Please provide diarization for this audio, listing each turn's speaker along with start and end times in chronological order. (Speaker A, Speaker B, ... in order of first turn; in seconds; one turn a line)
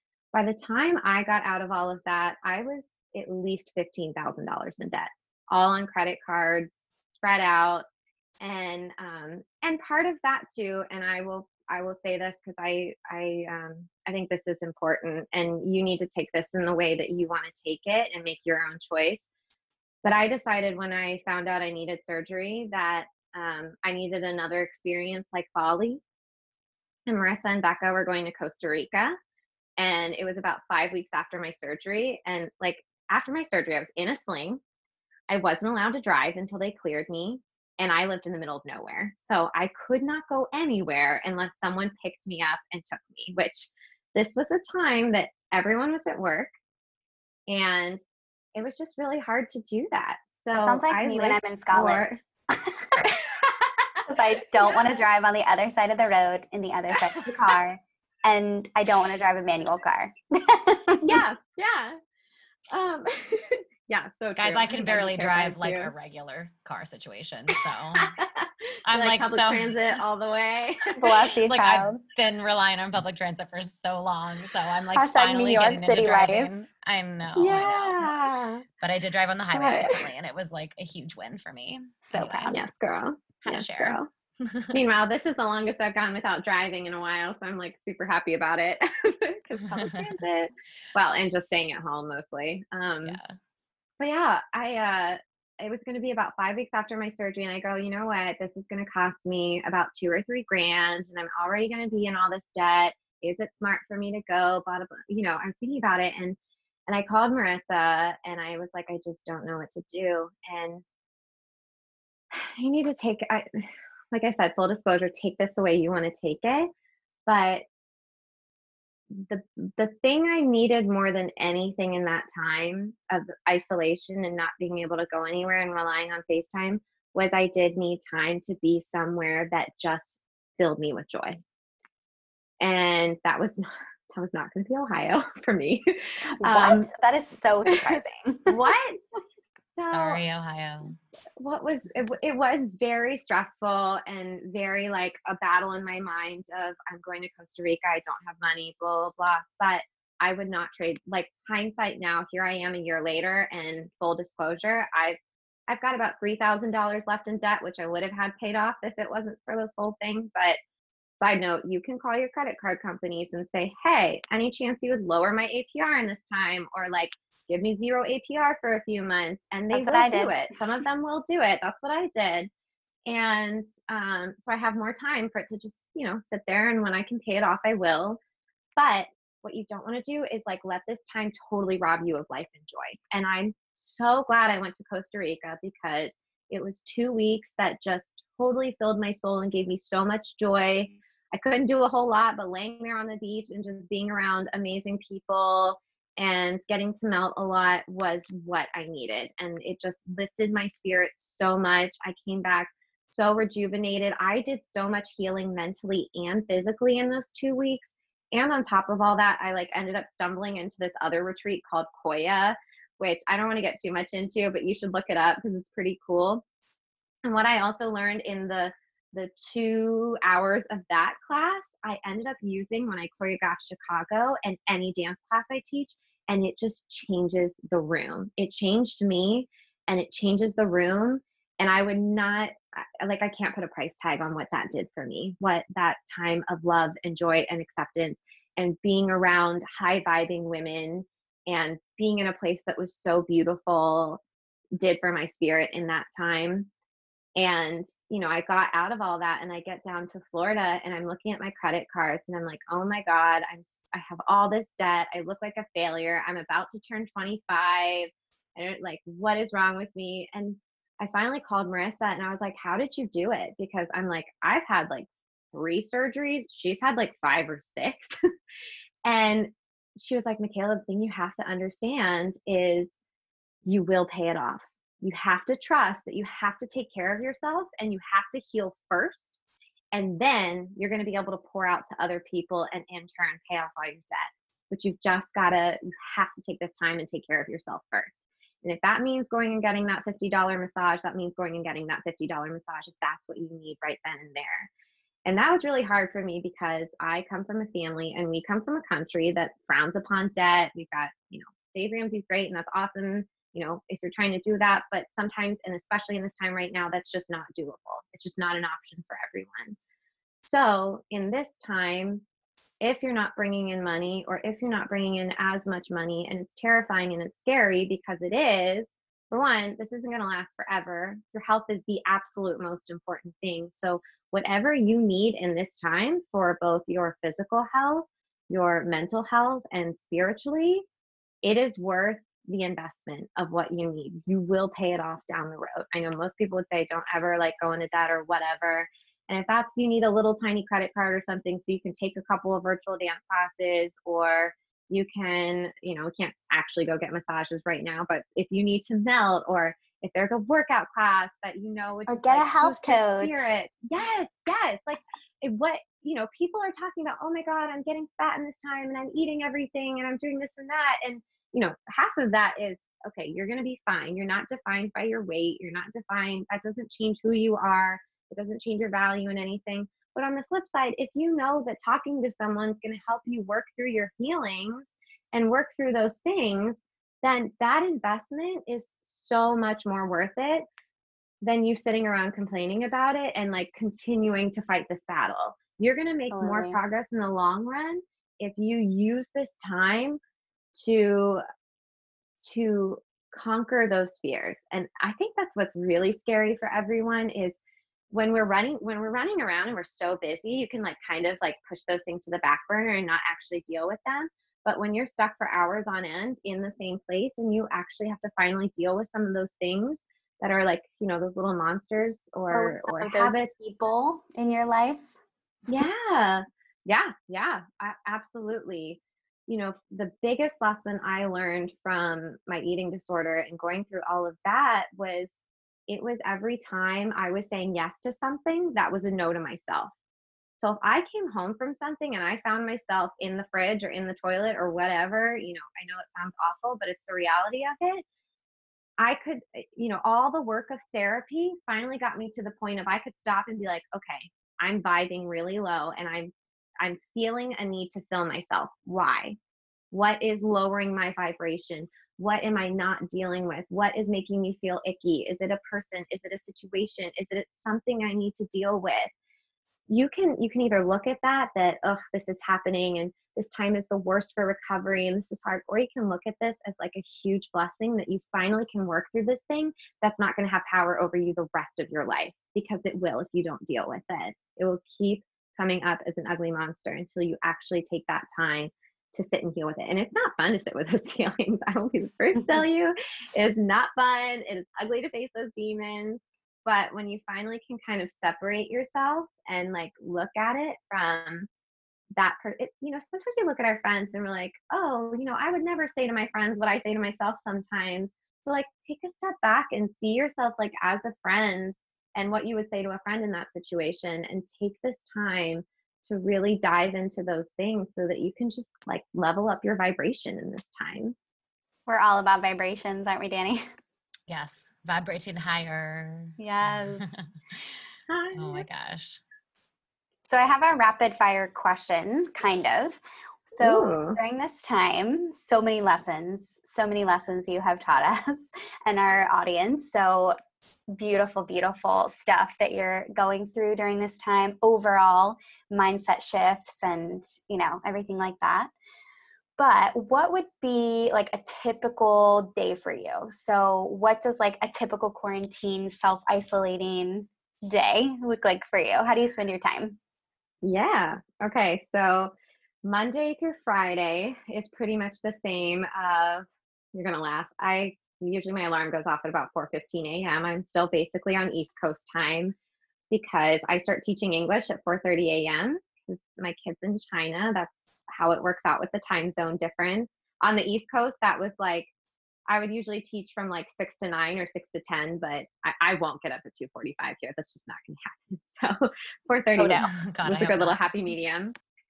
Speaker A: 0.3-7.9
Speaker A: 8.4-19.3
Speaker A: 20.0-26.0
Speaker A: 27.1-29.2
Speaker A: 29.8-34.6
Speaker A: 35.3-46.5
Speaker A: 47.5-48.0
Speaker A: 48.5-52.1
Speaker B: 50.5-53.1
Speaker A: 53.1-54.0
Speaker B: 54.1-61.2
Speaker A: 54.6-55.0
Speaker A: 57.1-57.5
Speaker A: 61.0-62.0
Speaker A: 62.7-65.9
Speaker C: 64.4-68.1
Speaker A: 68.0-71.0
Speaker C: 68.9-70.0
Speaker B: 71.0-72.0
Speaker C: 71.4-78.1
Speaker B: 74.9-76.7
Speaker A: 77.4-78.7
Speaker C: 78.8-82.5
Speaker A: 79.5-80.1
Speaker B: 82.1-82.6
Speaker A: 82.5-84.1
Speaker C: 83.4-84.8
Speaker A: 84.7-93.2
Speaker C: 93.0-93.3
Speaker A: 94.0-106.4
Speaker A: 106.9-110.8
Speaker A: 112.3-116.7
Speaker A: 117.3-117.7
Speaker A: 119.1-131.4
Speaker A: 132.6-136.9
Speaker B: 136.3-138.6
Speaker A: 137.7-139.0
Speaker A: 139.8-140.2
Speaker C: 139.9-141.0
Speaker A: 141.4-160.6
Speaker A: 161.2-172.5
Speaker B: 169.7-170.4
Speaker A: 173.1-178.2
Speaker A: 178.8-216.4
Speaker A: 217.2-244.2
Speaker A: 244.8-246.7
Speaker A: 247.4-268.2
Speaker A: 269.1-272.9
Speaker A: 273.6-279.4
Speaker A: 279.9-294.7
Speaker A: 295.3-309.8
Speaker A: 310.4-312.2
Speaker A: 312.8-330.9
Speaker A: 331.4-380.6
Speaker B: 352.1-353.5
Speaker A: 381.4-390.2
Speaker B: 386.3-386.8
Speaker A: 390.8-391.4
Speaker A: 392.4-413.8
Speaker B: 412.5-415.1
Speaker A: 415.7-429.9
Speaker A: 430.6-438.1
Speaker A: 439.0-449.4
Speaker A: 449.9-459.1
Speaker A: 459.9-491.5
Speaker A: 492.2-511.2
Speaker B: 511.9-513.6
Speaker C: 514.3-517.3
Speaker B: 516.4-517.1
Speaker A: 518.1-518.7
Speaker C: 518.4-519.2
Speaker B: 520.3-530.4
Speaker A: 523.6-524.2
Speaker B: 530.9-538.7
Speaker B: 539.6-550.0
Speaker A: 550.6-562.5
Speaker A: 563.1-571.9
Speaker A: 572.5-581.5
Speaker B: 579.6-579.9
Speaker C: 579.9-580.9